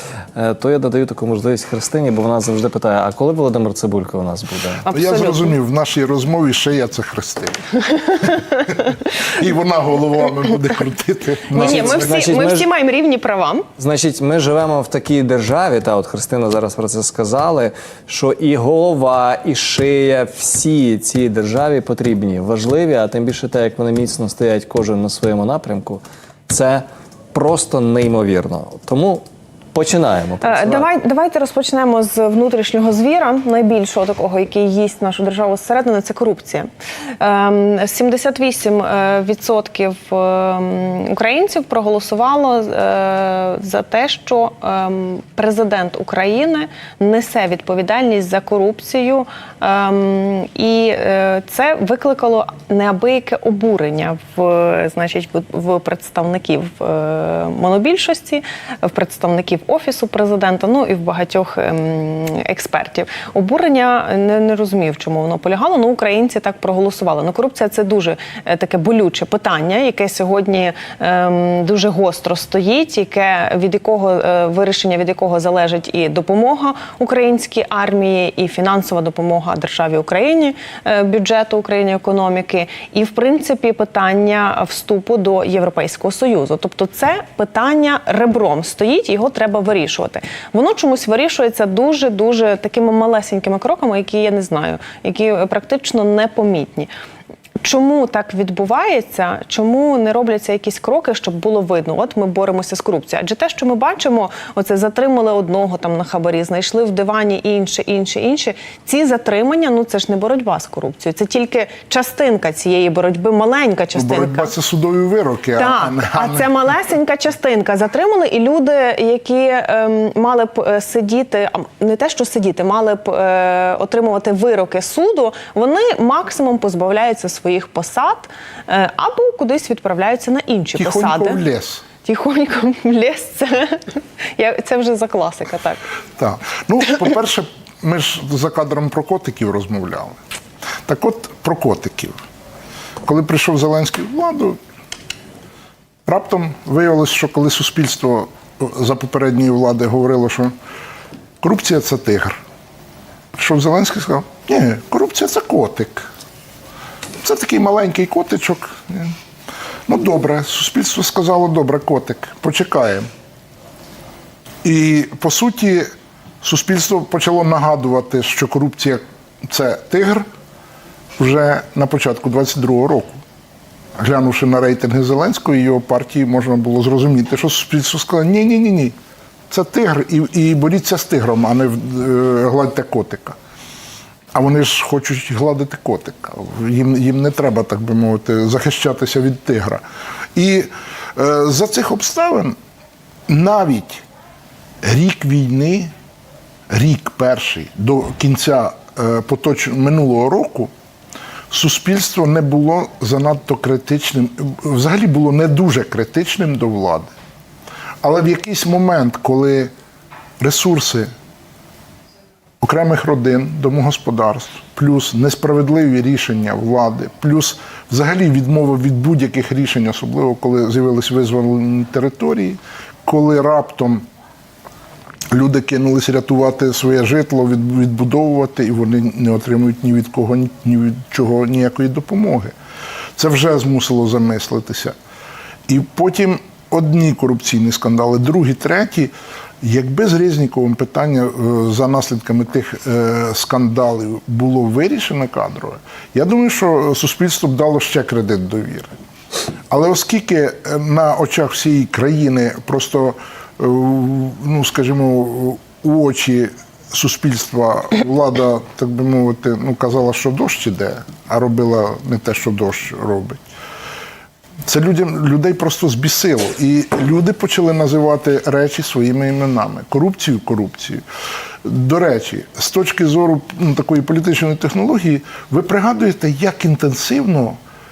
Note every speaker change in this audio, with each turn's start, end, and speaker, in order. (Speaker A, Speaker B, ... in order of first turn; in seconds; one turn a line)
Speaker A: 0.4-4.8
Speaker B: 4.8-5.6
Speaker C: 4.9-7.6
Speaker B: 7.9-8.8
Speaker C: 8.1-12.2
Speaker A: 11.5-12.7
Speaker B: 11.5-13.7
Speaker A: 13.8-30.9
Speaker B: 30.4-36.7
Speaker B: 37.2-96.9
Speaker B: 97.6-114.5
Speaker C: 113.9-116.5
Speaker B: 115.6-131.4
Speaker C: 130.8-131.8
Speaker B: 132.0-135.8
Speaker C: 136.2-140.2
Speaker C: 140.9-142.2
Speaker C: 143.1-144.6
Speaker C: 146.1-150.5
Speaker C: 151.4-152.4
Speaker C: 153.3-156.1
Speaker C: 157.2-159.2
Speaker C: 159.9-163.1
Speaker C: 164.6-165.9
Speaker C: 166.4-170.2
Speaker C: 171.2-173.2
Speaker C: 174.0-178.9
Speaker C: 179.5-183.4
Speaker C: 184.3-189.8
Speaker C: 190.3-192.6
Speaker C: 193.3-194.0
Speaker C: 194.8-195.9
Speaker C: 196.7-200.7
Speaker C: 201.5-207.1
Speaker C: 208.0-209.7
Speaker C: 210.4-211.1
Speaker C: 212.6-224.0
Speaker C: 225.3-232.5
Speaker C: 233.2-234.9
Speaker C: 235.7-248.9
Speaker C: 249.7-263.4
Speaker C: 264.7-271.0
Speaker C: 271.6-277.6